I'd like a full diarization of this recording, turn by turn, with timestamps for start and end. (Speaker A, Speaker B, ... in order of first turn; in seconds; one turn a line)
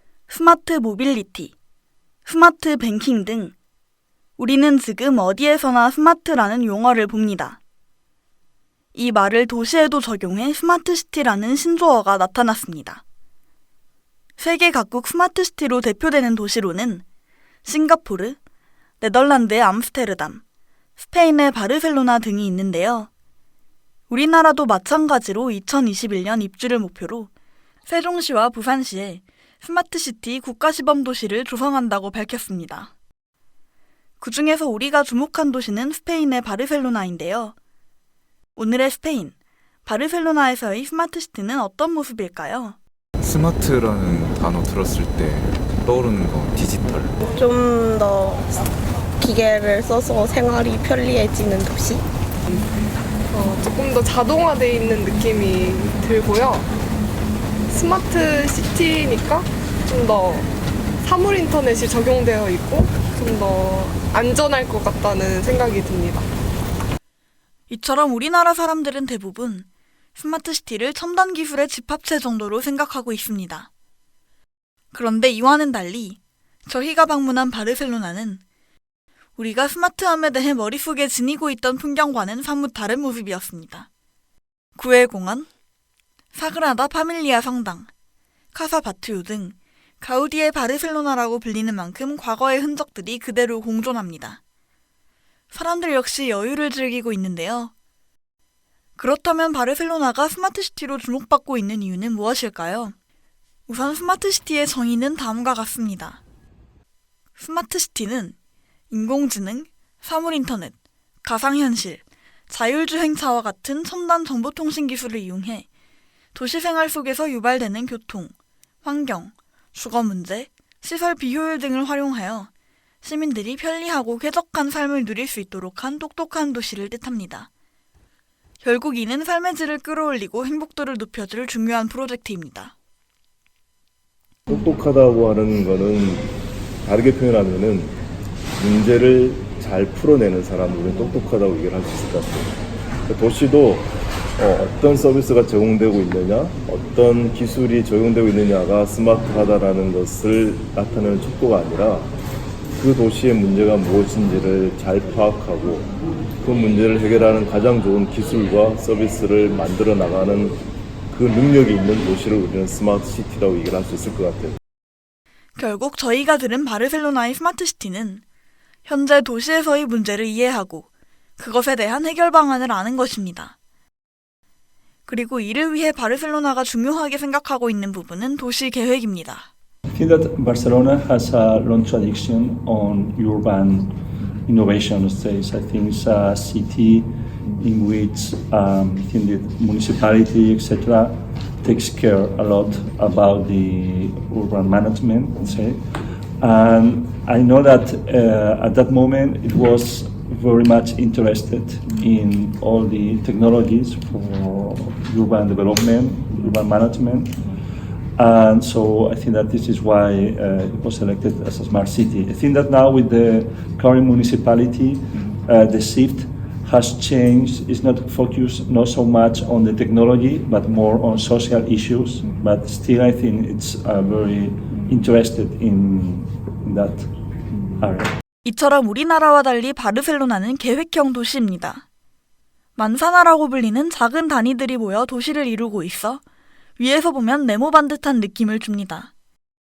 Speaker A: 0.3-1.5
Speaker A: 2.3-3.5
Speaker A: 4.4-7.6
Speaker A: 8.9-13.0
Speaker A: 14.4-17.0
Speaker A: 17.6-18.4
Speaker A: 19.0-20.4
Speaker A: 21.0-23.1
Speaker A: 24.1-27.3
Speaker A: 27.9-32.9
Speaker A: 34.2-37.5
Speaker A: 38.6-42.8
Speaker B: 43.2-47.2
Speaker C: 47.2-48.6
Speaker C: 49.2-52.0
Speaker D: 53.3-56.7
Speaker D: 57.7-66.3
Speaker A: 67.7-73.7
Speaker A: 74.9-78.4
Speaker A: 79.4-83.9
Speaker A: 84.8-85.5
Speaker A: 86.3-87.9
Speaker A: 88.5-94.4
Speaker A: 95.5-97.7
Speaker A: 99.0-103.0
Speaker A: 103.7-106.2
Speaker A: 107.4-108.3
Speaker A: 108.9-115.7
Speaker A: 116.3-122.5
Speaker A: 123.0-127.5
Speaker A: 128.6-132.7
Speaker E: 134.5-136.3
Speaker E: 136.8-137.9
Speaker E: 138.6-142.5
Speaker E: 143.1-152.1
Speaker E: 152.8-155.9
Speaker E: 156.4-164.6
Speaker A: 165.6-168.2
Speaker A: 168.9-173.6
Speaker A: 175.1-179.5
Speaker F: 179.9-207.5
Speaker F: 208.2-227.1
Speaker F: 227.7-228.1
Speaker A: 228.4-231.8
Speaker A: 232.8-236.2
Speaker A: 236.8-239.1